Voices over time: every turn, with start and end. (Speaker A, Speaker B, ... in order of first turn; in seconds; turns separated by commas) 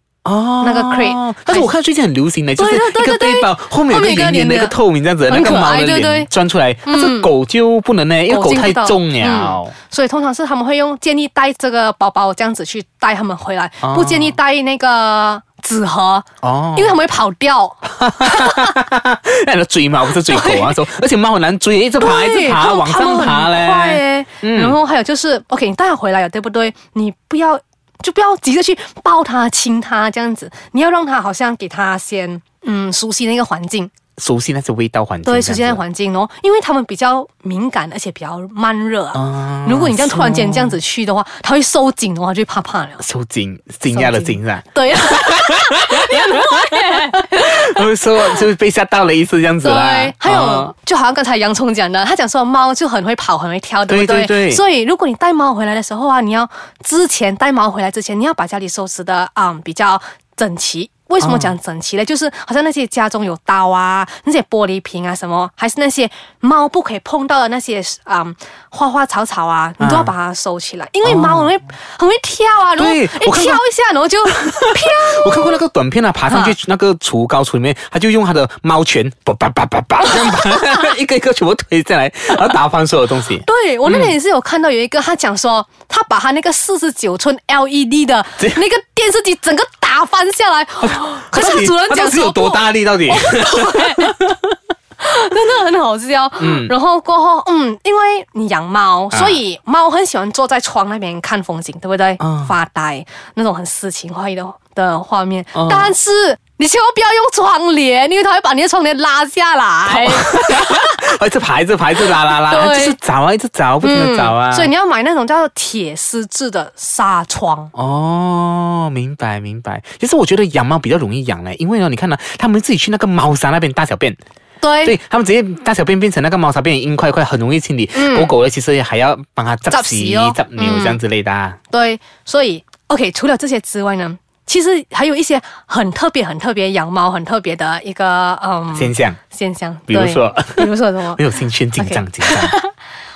Speaker A: 0.2-9.7, Speaker B: 0.6-1.7, Speaker B: 2.6-4.8, Speaker B: 5.3-6.3, Speaker B: 6.9-7.3, Speaker B: 8.3-18.7, Speaker A: 13.8-14.4, Speaker A: 16.4-17.0, Speaker A: 18.0-24.8, Speaker B: 20.3-20.7, Speaker B: 22.0-33.9, Speaker A: 34.2-35.8, Speaker B: 35.2-43.0, Speaker A: 39.1-40.8, Speaker A: 43.0-50.7, Speaker B: 43.9-48.4, Speaker B: 49.6-75.6, Speaker A: 53.9-54.6, Speaker A: 61.2-61.5, Speaker A: 69.8-70.1, Speaker A: 71.0-71.5, Speaker A: 72.8-73.6, Speaker A: 74.3-84.1, Speaker B: 76.3-76.6, Speaker B: 80.1-80.7, Speaker B: 83.4-94.2, Speaker A: 90.8-94.3, Speaker B: 95.0-111.0, Speaker A: 96.4-96.7, Speaker A: 102.2-102.5, Speaker A: 105.5-105.9, Speaker A: 109.9-114.7, Speaker B: 112.1-113.0, Speaker B: 113.8-117.7, Speaker A: 117.7-124.2, Speaker B: 124.6-125.0, Speaker A: 124.8-131.6, Speaker B: 127.9-128.3, Speaker B: 129.7-131.0, Speaker B: 131.7-142.7, Speaker A: 138.7-139.2, Speaker A: 139.9-142.6